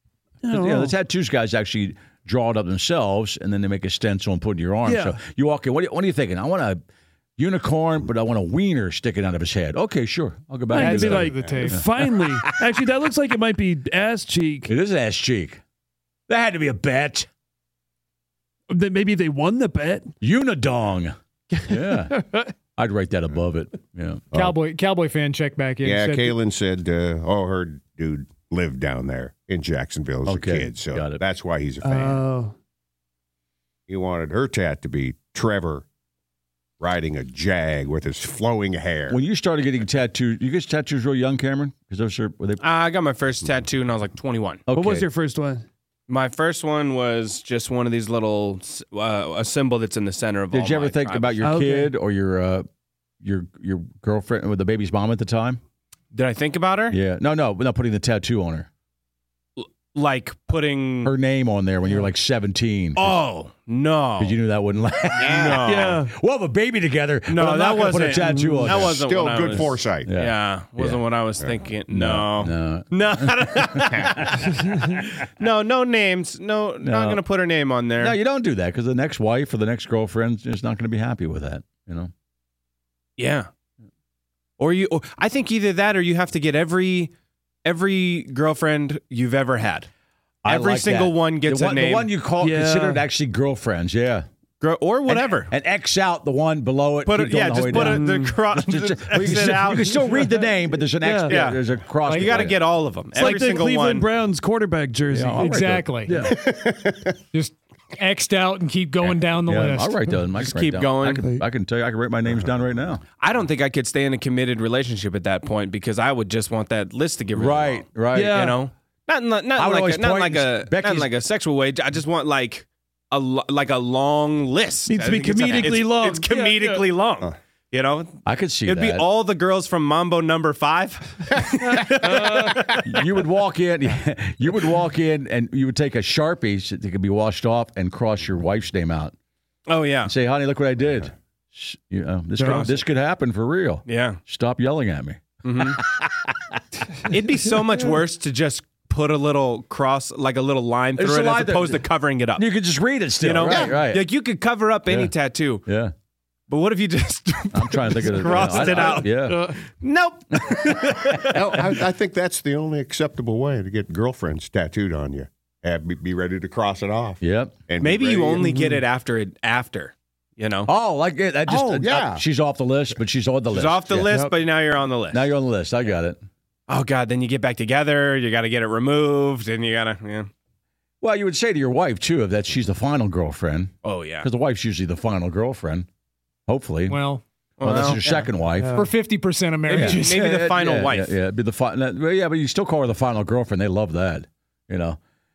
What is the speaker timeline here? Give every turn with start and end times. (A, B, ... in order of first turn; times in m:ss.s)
0:00.4-0:01.0 A
0:00.5-0:06.8 B
0:04.8-0:05.2 A
0:07.4-0:12.6 B
0:10.7-0:14.7 A
0:10.8-0:11.8 C
0:14.7-0:15.6 B
0:16.3-0:17.3 B
0:18.7-0:20.1 A
0:20.2-0:24.3 B
0:21.5-0:22.5 A
0:24.3-0:26.4 C
0:25.8-0:32.3 D
0:30.3-0:31.2 B
0:31.8-0:32.5 A
0:33.9-0:35.8 D
0:36.8-0:39.2 D
0:39.1-0:42.6 B
0:42.6-0:44.7 E
0:44.7-0:45.1 B
0:44.7-0:45.6 A
0:46.1-0:51.5 E
0:50.5-0:52.7 B
0:51.4-0:51.9 A
0:53.2-0:55.6 B
0:56.1-0:57.0 E
0:56.9-0:58.7 B
0:59.6-1:01.1 E
1:01.0-1:03.2 B
1:03.0-1:04.4 E
1:04.2-1:11.0 B
1:05.2-1:06.0 E
1:05.6-1:06.1 A
1:07.3-1:14.2 E
1:08.2-1:08.9 A
1:08.8-1:10.1 D
1:11.9-1:14.4 B
1:15.4-1:18.2 E
1:16.8-1:17.2 B
1:18.0-1:22.1 B
1:23.2-1:23.5 E
1:24.6-1:27.1 E
1:27.6-1:29.9 E
1:30.4-1:34.3 B
1:30.5-1:32.1 E
1:32.4-1:33.0 A
1:34.6-1:35.5 E
1:35.1-1:42.7 B
1:37.0-1:40.0 E
1:37.7-1:38.4 A
1:40.9-1:41.5 A
1:41.3-1:44.1 E
1:43.1-1:46.4 A
1:45.1-1:46.3 B
1:45.4-1:46.2 C
1:46.2-1:47.1 D
1:47.3-1:50.0 C
1:49.0-1:53.0 B
1:50.4-1:51.2 E
1:53.2-2:12.8 E
1:57.4-1:58.5 B
1:58.1-1:58.6 A
1:59.6-2:01.2 B
2:04.9-2:06.9 A
2:08.2-2:09.1 B
2:11.7-2:12.6 A
2:12.8-2:19.1 B
2:19.7-2:20.1 E
2:20.0-2:26.1 B
2:22.4-2:22.8 E
2:23.9-2:24.2 E
2:25.4-2:25.8 E
2:27.1-2:32.5 E
2:31.0-2:31.8 B
2:32.4-2:34.2 B
2:33.2-2:35.6 E
2:33.4-2:33.8 D
2:34.9-2:35.1 B
2:35.6-2:35.9 B
2:36.5-2:41.6 E
2:37.5-2:39.5 B
2:41.2-2:48.5 D
2:47.2-2:47.6 B
2:47.8-2:50.7 E
2:48.4-2:48.8 A
2:50.7-2:54.3 B
2:51.5-2:52.2 D
2:53.5-2:55.3 E
2:55.1-2:56.2 B
2:56.7-3:00.3 E
3:01.0-3:05.9 B
3:03.8-3:04.3 E
3:06.5-3:07.0 B
3:06.9-3:07.2 C
3:07.6-3:08.0 E
3:07.6-3:08.8 B
3:08.6-3:08.9 A
3:08.7-3:10.2 C
3:09.7-3:15.0 B
3:09.7-3:11.2 E